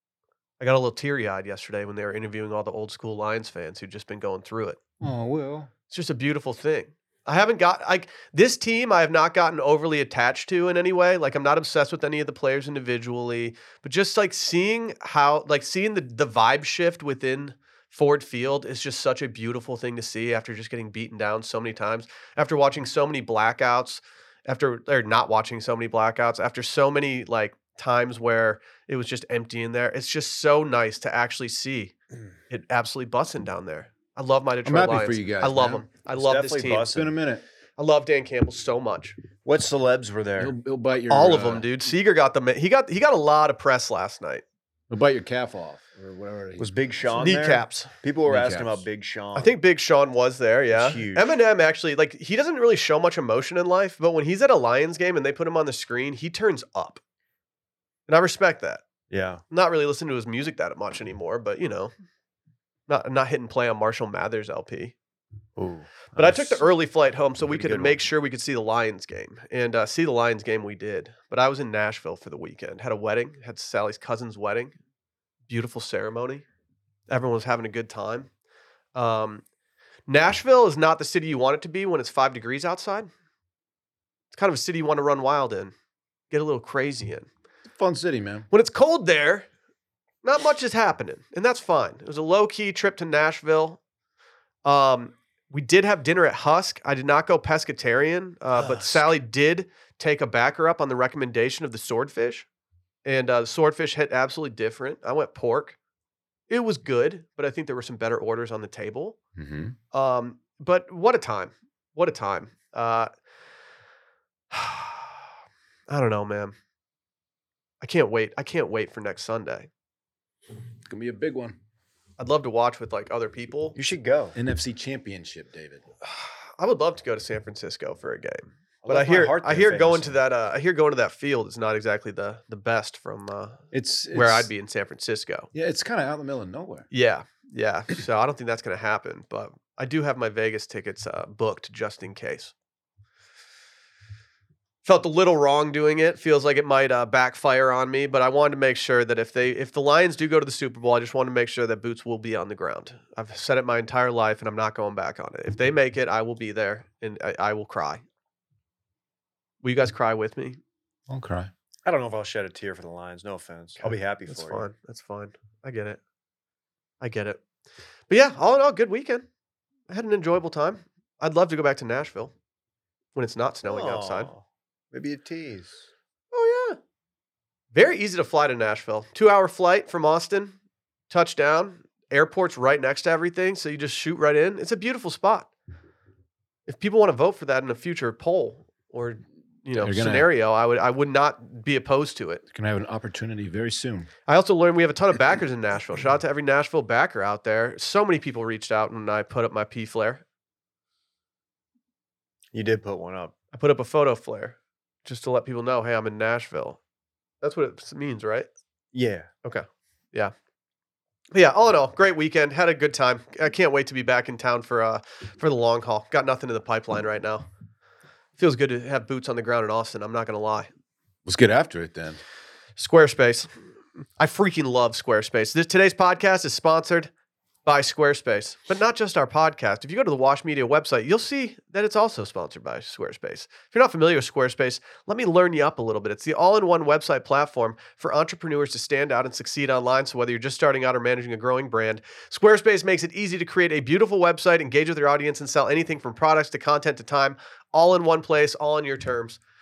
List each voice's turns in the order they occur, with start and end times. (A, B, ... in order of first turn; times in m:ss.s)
0:00.6-0:04.8 A
0:05.0-0:05.7 B
0:05.9-0:31.9 A
0:32.5-0:36.9 A
0:34.6-0:35.8 B
0:36.2-0:37.1 C
0:36.9-0:37.4 B
0:37.8-0:39.2 A
0:39.4-0:40.5 C
0:40.4-0:41.6 B
0:41.1-0:44.4 A
0:44.9-0:47.1 B
0:46.6-0:49.5 C
0:47.2-0:47.9 A
0:48.3-0:48.8 B
0:49.4-0:57.0 A
0:50.7-0:51.4 C
0:58.1-0:58.8 A
0:59.1-0:59.4 C
0:59.5-1:01.9 A
1:02.9-1:04.9 A
1:05.6-1:06.7 C
1:06.2-1:14.7 A
1:07.4-1:08.0 C
1:15.5-1:16.4 A
1:17.1-1:18.3 A
1:18.9-1:19.4 A
1:20.1-1:23.1 A
1:24.3-1:25.7 A
1:26.3-1:27.3 A
1:27.7-1:28.5 B
1:28.5-1:29.5 A
1:30.2-1:33.8 A
1:34.6-1:42.5 A
1:38.6-1:39.0 C
1:43.0-1:45.8 A
1:46.5-1:49.2 A
1:49.4-1:49.8 B
1:49.9-1:53.1 A
1:54.5-1:55.2 A
1:55.9-1:56.6 A
1:57.8-1:59.7 A
2:00.9-2:01.6 B
2:02.2-2:03.8 A
2:03.8-2:04.4 C
2:04.4-2:05.8 B
2:06.0-2:15.5 A
2:08.8-2:10.2 C
2:13.7-2:14.5 B
2:15.5-2:16.9 B
2:16.9-2:22.5 A
2:24.8-2:38.0 A
2:39.6-2:40.6 A
2:41.1-2:41.5 B
2:41.9-2:44.6 C
2:43.8-2:46.0 A
2:47.0-2:47.4 A
2:48.1-2:49.3 A
2:49.9-2:52.3 A
2:53.2-2:54.3 A
2:53.6-2:55.9 C
2:56.3-2:56.8 A
2:57.7-3:00.6 A
3:01.1-3:05.5 A
3:06.7-3:12.4 A
3:09.8-3:10.3 B
3:12.5-3:14.1 B
3:14.3-3:20.2 A
3:22.5-3:23.3 C
3:23.5-3:26.8 A
3:27.4-3:28.5 A
3:28.9-3:29.3 C
3:29.4-3:30.3 A
3:31.3-3:37.5 A
3:38.4-3:40.7 A
3:41.3-3:42.2 B
3:42.8-3:43.5 A
3:44.2-3:47.1 A
3:47.6-4:09.4 A